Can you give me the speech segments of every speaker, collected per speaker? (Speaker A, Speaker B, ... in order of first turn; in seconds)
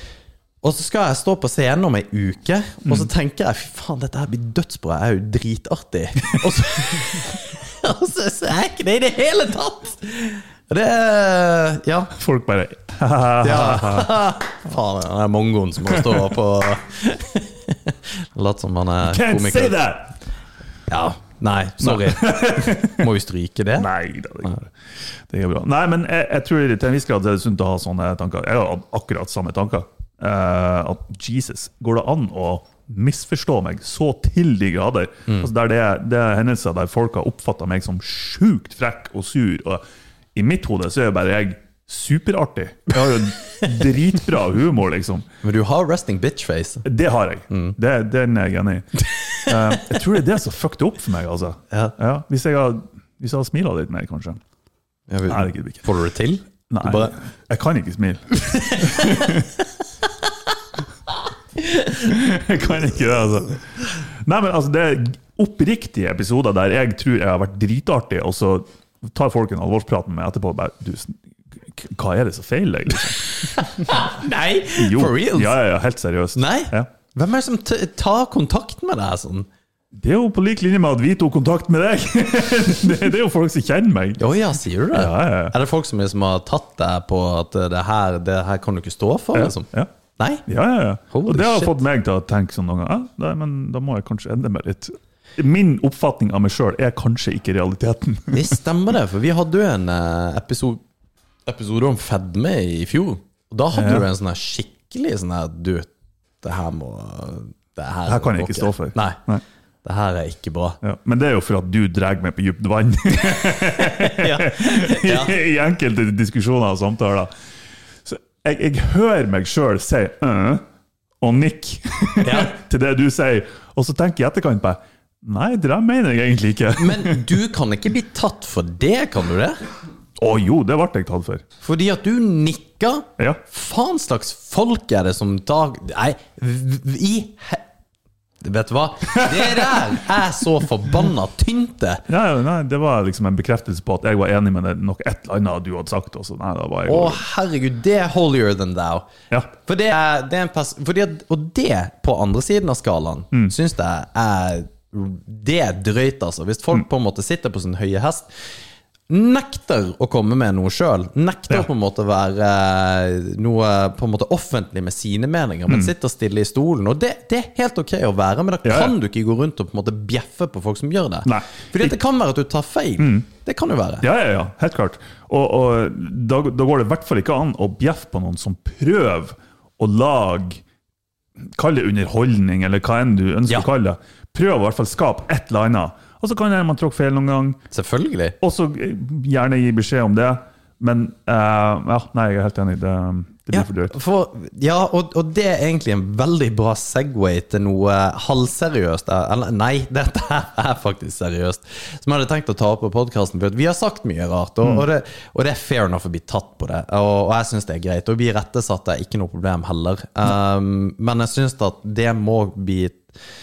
Speaker A: 0.6-12.1, 13.4-19.8, 20.9-23.9, 45.4-46.8, 55.1-57.1, 58.7-59.3, 73.6-75.5, 76.3-79.5, 84.2-89.7, 90.2-90.4, 91.1-91.8, 98.3-100.8, 101.5-105.9, 106.4-109.2, 109.8-110.8, 113.7-115.3, 122.2-122.5, 126.8-129.6, 131.6-137.6, 138.4-142.0, 146.8-158.3, 159.1-174.1, 187.7-188.3, 193.5-213.1
Speaker B: 12.2-14.1, 19.0-20.1, 21.8-23.1, 23.8-39.8, 40.3-45.2, 46.8-54.4, 55.3-55.8, 56.7-59.5, 61.8-71.2, 71.7-73.7, 74.7-76.9, 80.0-84.2, 84.9-85.5, 89.3-89.9, 90.5-98.5, 103.7-104.1, 108.1-109.4, 110.8-117.3, 118.0-120.6, 121.2-127.2, 130.2-131.4, 139.1-139.9, 142.1-147.2, 168.6-168.9, 171.2-172.0, 173.0-173.2, 174.0-180.6, 181.4-187.6, 188.4-193.9